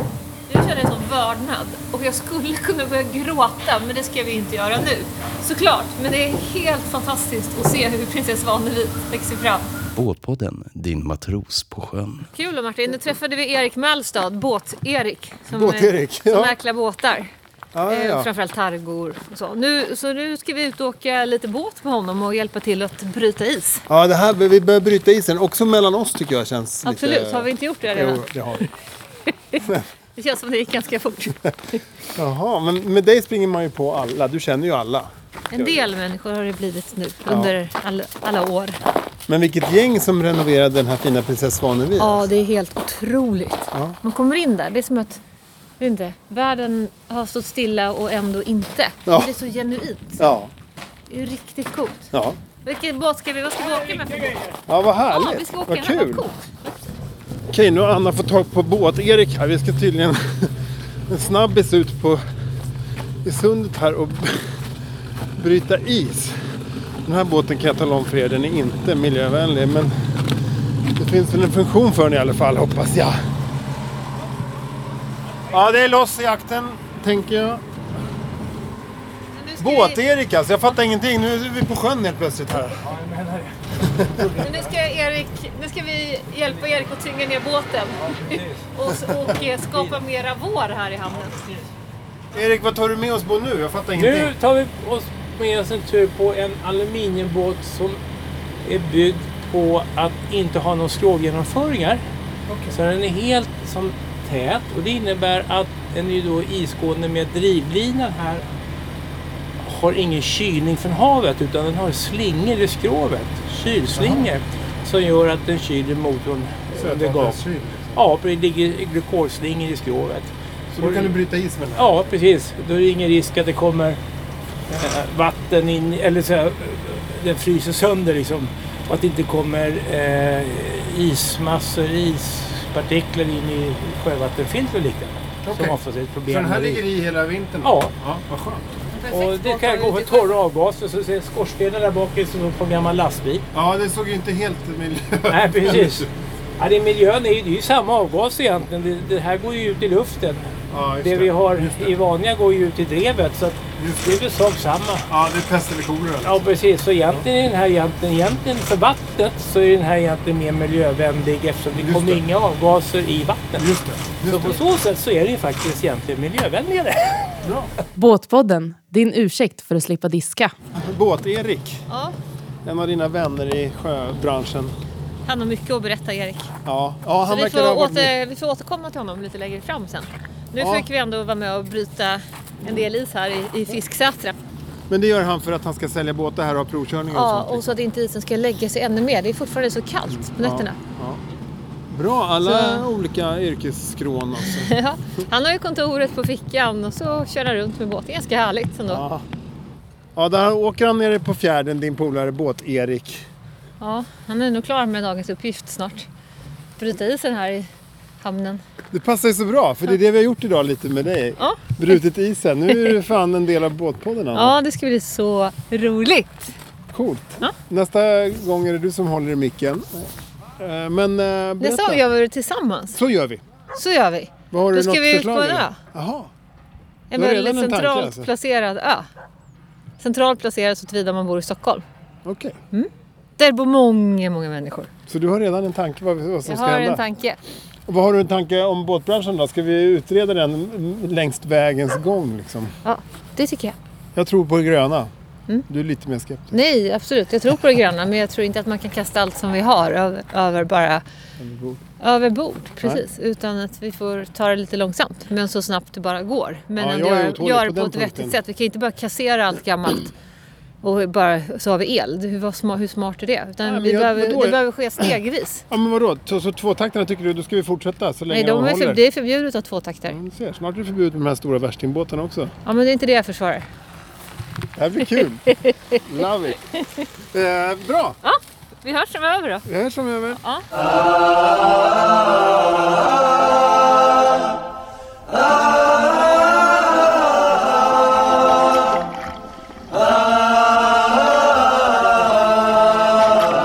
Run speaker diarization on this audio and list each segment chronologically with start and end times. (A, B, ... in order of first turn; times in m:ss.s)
0:00.5-0:09.7 A
0:09.9-0:12.3 B
0:12.3-0:17.3 A
0:15.5-0:16.6 C
0:17.7-0:18.3 C
0:17.9-0:23.8 A
0:23.9-0:28.6 C
0:26.8-0:28.2 A
0:30.2-0:31.4 A
0:32.2-0:35.8 C
0:35.5-0:38.8 A
0:37.3-0:37.5 C
0:39.3-0:42.3 C
0:42.0-0:45.2 A
0:43.7-0:44.0 C
0:45.8-0:50.2 A
0:49.0-0:49.3 C
0:50.2-0:50.5 C
0:51.1-0:52.1 A
0:52.1-0:52.4 C
0:52.6-0:54.5 A
0:54.7-0:56.2 C
0:55.1-0:56.8 A
0:57.5-1:00.6 C
1:01.1-1:02.2 C
1:03.2-1:04.4 C
1:05.4-1:06.4 C
1:07.0-1:09.9 C
1:11.0-1:13.2 C
1:15.5-1:17.6 C
1:19.3-1:20.0 A
1:19.6-1:22.8 C
1:22.8-1:24.7 D
1:23.8-1:24.2 C
1:24.4-1:31.5 A
1:28.0-1:28.7 D
1:29.3-1:30.0 D
1:32.3-1:34.3 C
1:34.0-1:38.0 D
1:38.6-1:42.0 D
1:42.5-1:42.8 C
1:42.7-1:48.4 D
1:49.6-1:57.4 D
1:53.9-1:54.2 C
1:56.7-1:58.0 C
1:57.9-2:01.1 D
2:00.7-2:02.0 C
2:01.8-2:04.0 D
2:04.7-2:16.8 D
2:15.4-2:18.6 C
2:17.6-2:17.9 D
2:18.9-2:20.3 A
2:19.1-2:23.4 D
2:23.5-2:26.1 C
2:25.3-2:26.1 D
2:26.6-2:30.4 D
2:30.7-2:31.9 C
2:31.0-2:35.1 D
2:33.8-2:34.2 C
2:35.1-2:36.5 C
2:36.2-2:43.6 D
2:41.7-2:42.2 C
2:43.6-2:44.6 C
2:44.2-2:47.5 D
2:47.4-2:47.7 C
2:48.0-2:50.5 E
2:50.7-2:51.8 C
2:51.9-2:52.2 A
2:52.6-2:54.7 C
2:55.2-2:56.5 A
2:56.6-2:58.2 C
2:57.2-3:04.4 A
3:00.6-3:00.9 C
3:04.9-3:07.8 C
3:07.1-3:10.8 A
3:10.4-3:11.2 C
3:11.9-3:14.7 C
3:12.4-3:12.9 A
3:14.5-3:19.0 A
3:18.9-3:19.2 C
3:20.2-3:23.2 C
3:23.8-3:26.1 A
3:26.8-3:27.7 A
3:28.2-3:28.6 A
3:28.9-3:34.6 C
3:31.4-3:31.7 A
3:34.3-3:36.5 A
3:36.9-3:42.0 C
3:41.6-3:43.0 A
3:42.9-3:43.4 C
3:43.7-3:45.8 A
3:44.5-3:46.3 C
3:47.1-3:49.0 A
3:47.1-3:48.3 C
3:50.0-3:51.8 A
3:52.2-3:52.6 C
3:52.7-3:54.9 A
3:55.1-3:57.0 C
3:56.4-3:57.4 A
3:57.9-4:02.7 C
4:02.8-4:03.8 A
4:04.1-4:05.1 C
4:05.7-4:06.6 C
4:06.5-4:11.0 A
4:11.4-4:11.8 C
4:12.0-4:20.1 A
4:16.8-4:18.4 C
4:20.8-4:25.6 A
4:23.6-4:25.2 C
4:25.7-4:29.0 C
4:28.3-4:30.2 A
4:30.0-4:32.5 C
4:32.6-4:33.6 A
4:34.8-4:36.6 C
4:35.6-4:36.0 A
4:37.3-4:38.2 C
4:38.2-4:39.6 A
4:39.6-4:40.4 C
4:40.4-4:40.6 A